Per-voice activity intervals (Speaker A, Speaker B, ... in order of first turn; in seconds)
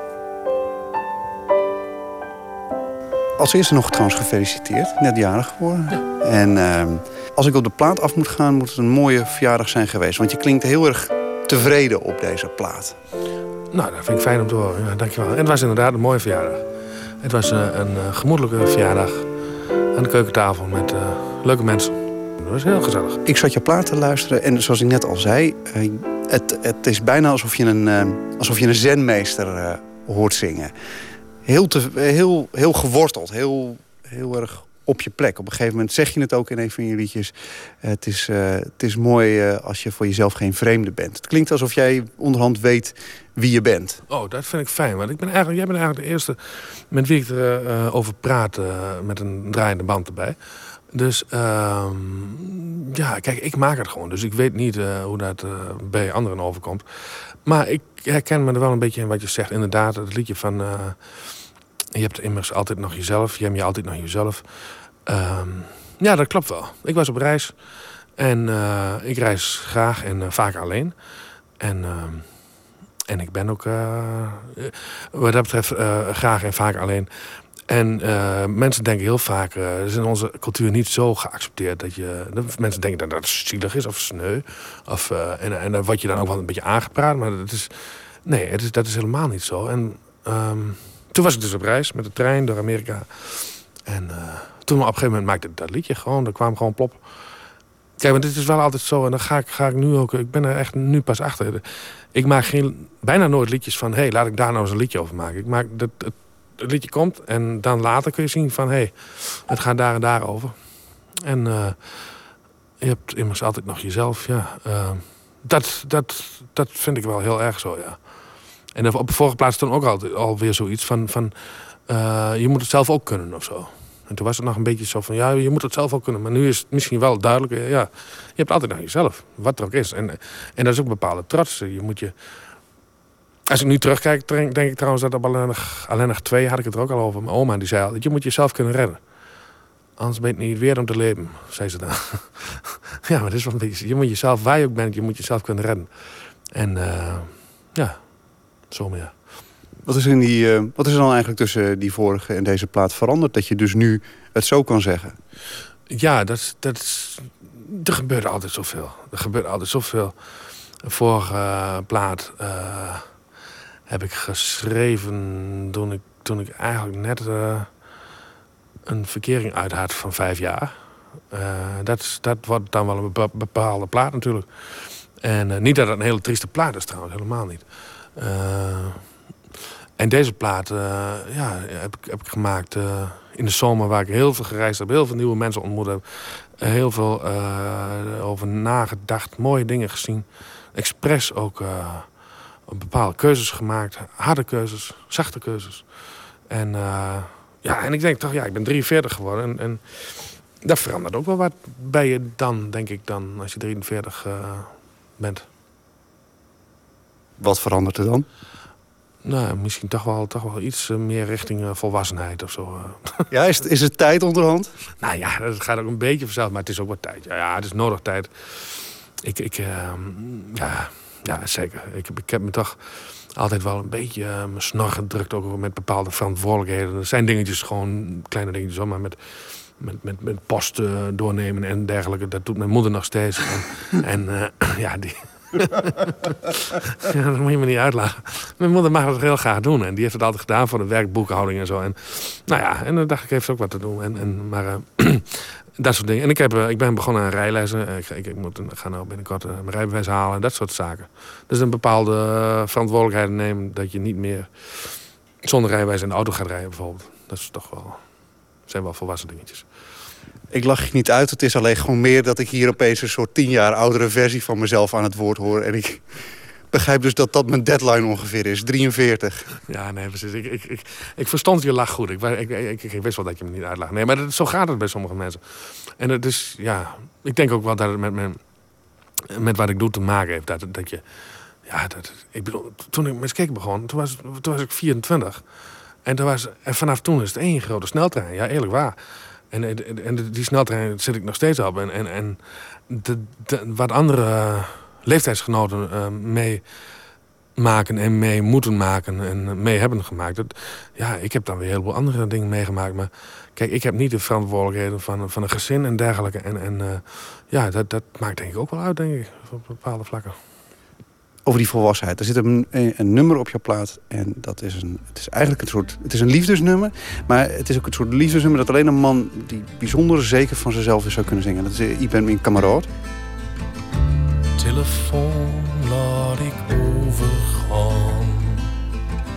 Speaker A: 3.4-13.0, 23.2-30.7, 31.4-44.0, 149.8-155.2, 207.4-208.3, 213.3-214.7, 260.5-269.6, 311.4-322.9
Speaker B: 13.7-16.7, 17.2-19.3, 19.9-23.2, 44.1-71.0, 71.6-97.1, 98.0-112.2, 112.8-132.2, 133.5-139.1, 140.0-149.5, 155.9-163.2, 163.9-167.8, 168.9-179.2, 180.0-205.5, 209.2-213.3, 215.0-235.9, 237.0-259.7, 269.7-278.5, 279.3-281.1, 281.6-296.7, 297.6-310.4, 324.6-328.4